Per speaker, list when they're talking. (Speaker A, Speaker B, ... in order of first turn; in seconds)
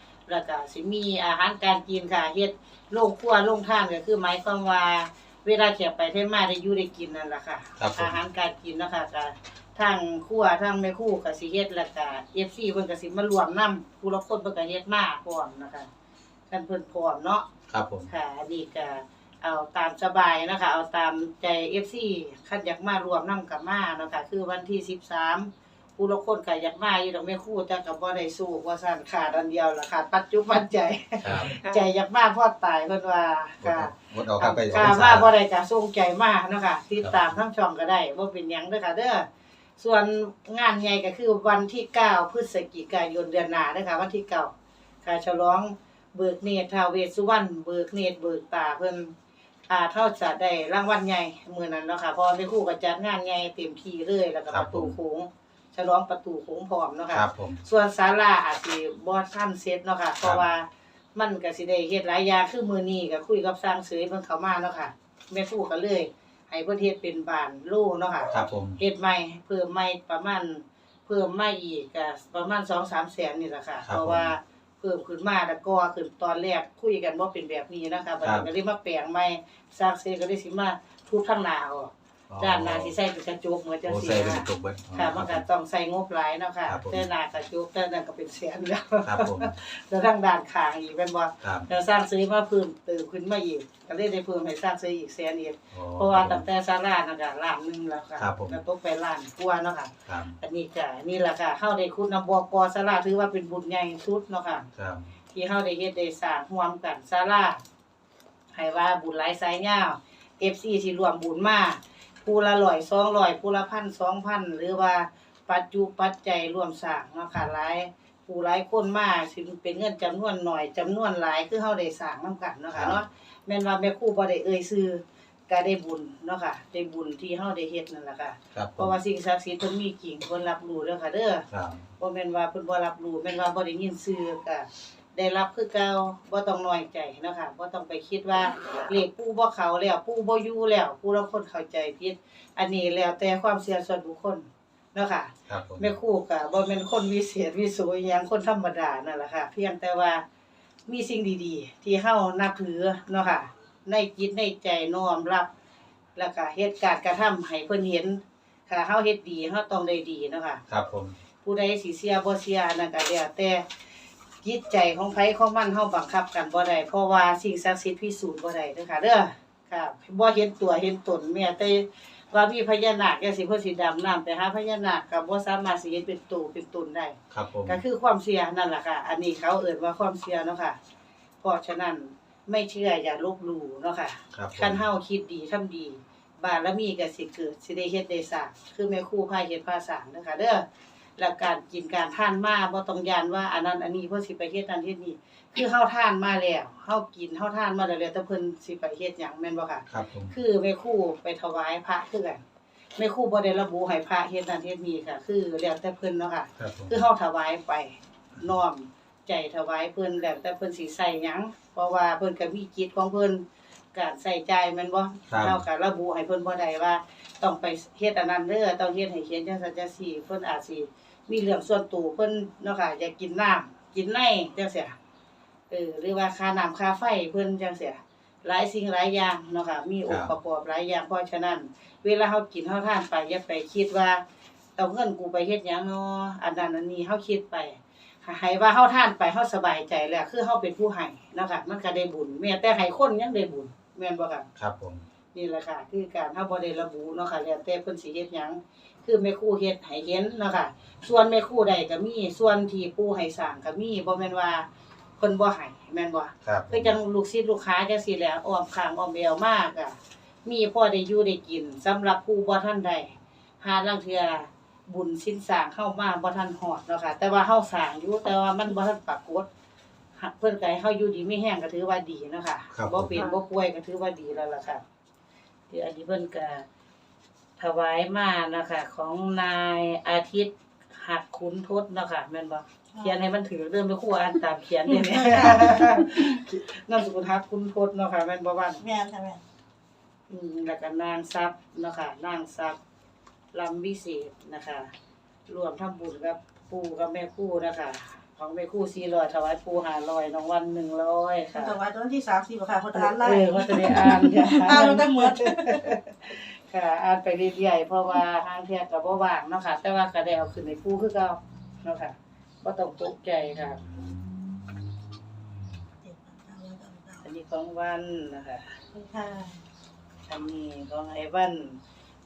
Speaker A: 0.3-15.9, 16.5-17.4, 18.1-39.2, 39.8-44.5, 45.0-49.1, 49.7-104.7, 105.3-107.6, 108.5-131.4, 132.0-150.2, 150.9-155.5, 156.2-160.6, 161.4-163.6, 164.4-177.2, 177.7-180.8, 181.4-190.6, 191.2-202.4, 202.9-224.9, 225.7-234.2, 234.8-244.5, 245.3-254.7, 255.2-269.5, 270.2-274.8, 275.7-276.6, 277.6-288.8, 290.3-292.8, 293.5-294.9, 295.5-301.8, 302.9-313.8, 317.2-318.8, 320.3-321.8
Speaker B: 7.8-8.2, 17.7-18.1, 31.2-31.5, 33.6-35.3, 54.5-54.9, 57.1-57.6, 68.3-68.8, 73.8-74.3, 78.2-78.5, 82.3-82.9, 83.8-85.4, 86.7-87.1, 89.0-89.5, 91.4-91.7, 95.7-96.4, 98.2-98.6, 100.1-100.3, 104.8-105.1, 128.5-128.9, 131.5-131.8, 145.5-145.9, 160.7-161.2, 177.3-177.8, 184.3-184.8, 199.9-200.3, 206.6-207.0, 215.3-215.6, 244.6-245.0, 256.4-256.9, 272.7-273.1
Speaker C: 282.9-283.2, 285.0-286.2, 288.8-289.4, 301.5-305.8, 316.0-317.2, 318.9-319.6